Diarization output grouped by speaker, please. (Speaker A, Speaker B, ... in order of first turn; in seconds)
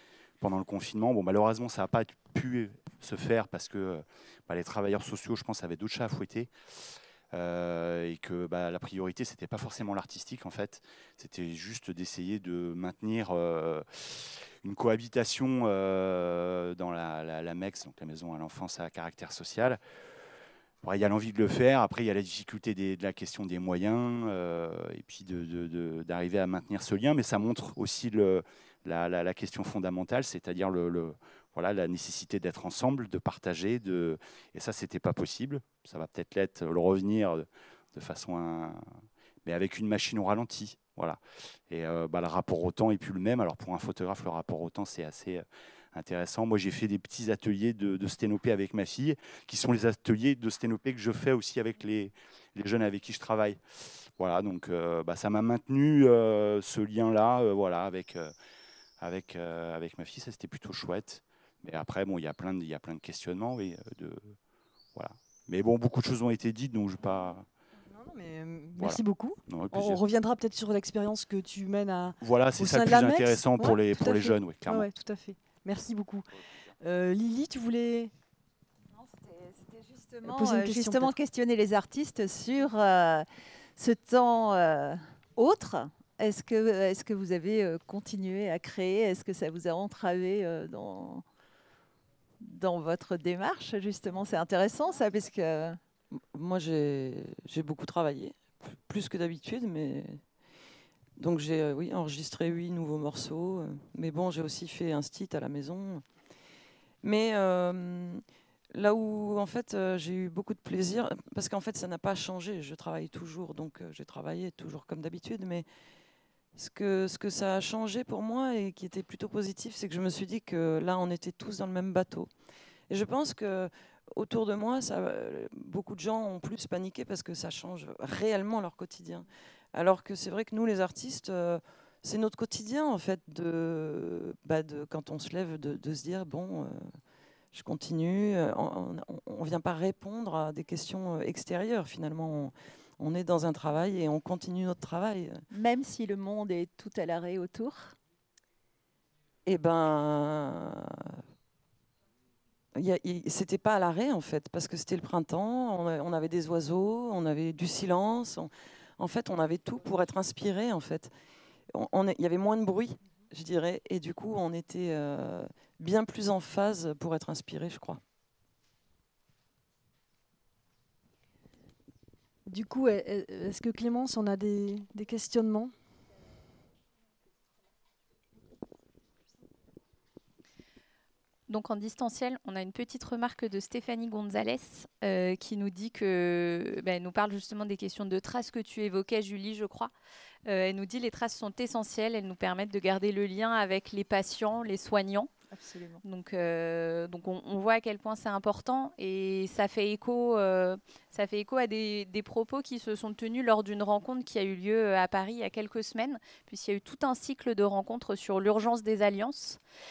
Speaker A: 0.4-6.5, 7.3-19.8, 20.8-38.8, 39.4-53.6, 54.2-58.3, 59.0-64.3, 64.9-67.5, 68.8-70.0, 72.2-74.9
Speaker B: 67.9-76.3, 76.8-78.1, 80.2-81.1, 172.4-175.7
Speaker C: 79.0-83.2, 83.8-91.2, 92.4-95.8, 145.5-147.9, 195.5-196.0
Speaker D: 96.1-100.2, 101.2-106.0, 107.0-115.7, 116.5-122.3, 122.9-137.0, 137.5-145.4, 149.4-151.2, 152.7-161.1, 161.7-168.0
Speaker E: 181.5-189.9, 190.4-195.3, 196.0-209.6